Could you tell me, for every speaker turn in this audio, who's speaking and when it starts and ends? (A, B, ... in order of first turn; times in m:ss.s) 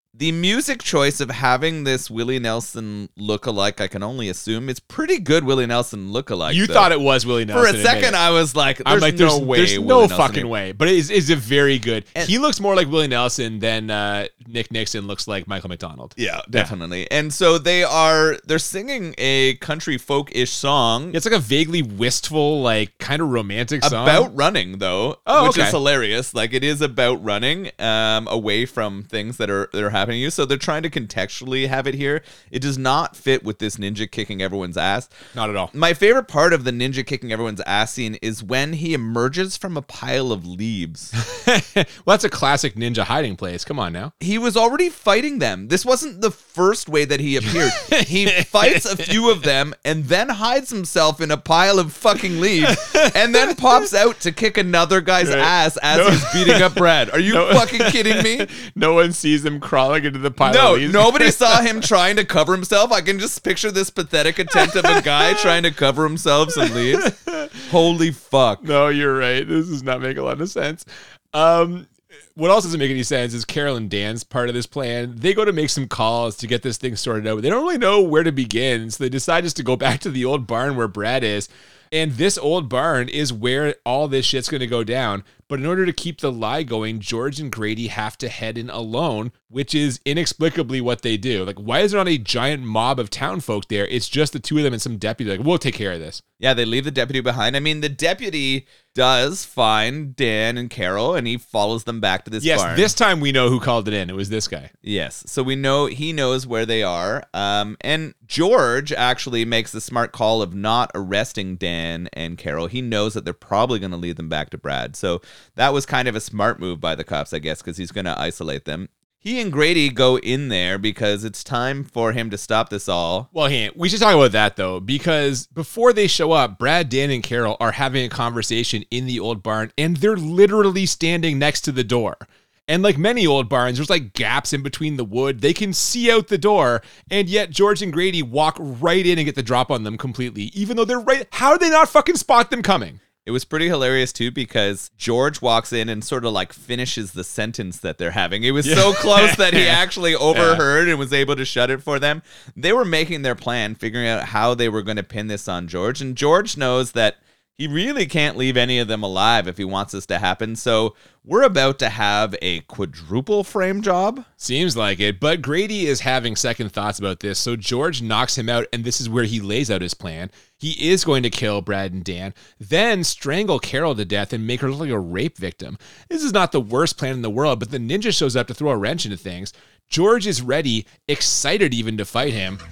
0:00.1-0:06.9 A
0:06.5-0:08.2 B
0:07.5-0:10.5 A
0:08.8-0:16.7 B
0:16.2-0:21.2 A
0:21.1-0:24.3 B
0:23.8-0:35.1 A
0:25.2-0:25.8 B
0:35.3-0:35.7 B
0:35.7-0:41.1 A
0:41.1-0:44.1 B
0:44.2-0:58.5 A
0:47.4-0:49.1 B
0:52.6-0:53.5 B
0:55.2-1:01.6 B
1:00.4-1:07.1 A
1:04.5-1:05.4 B
1:06.6-1:07.6 B
1:07.6-1:08.7 A
1:08.6-1:36.2 B
1:36.4-1:42.9 A
1:42.4-1:44.7 B
1:44.8-2:03.3 A
2:03.3-2:23.0 B
2:23.2-2:44.2 A
2:28.6-2:29.8 B
2:30.3-2:30.6 B
2:44.4-3:02.6 B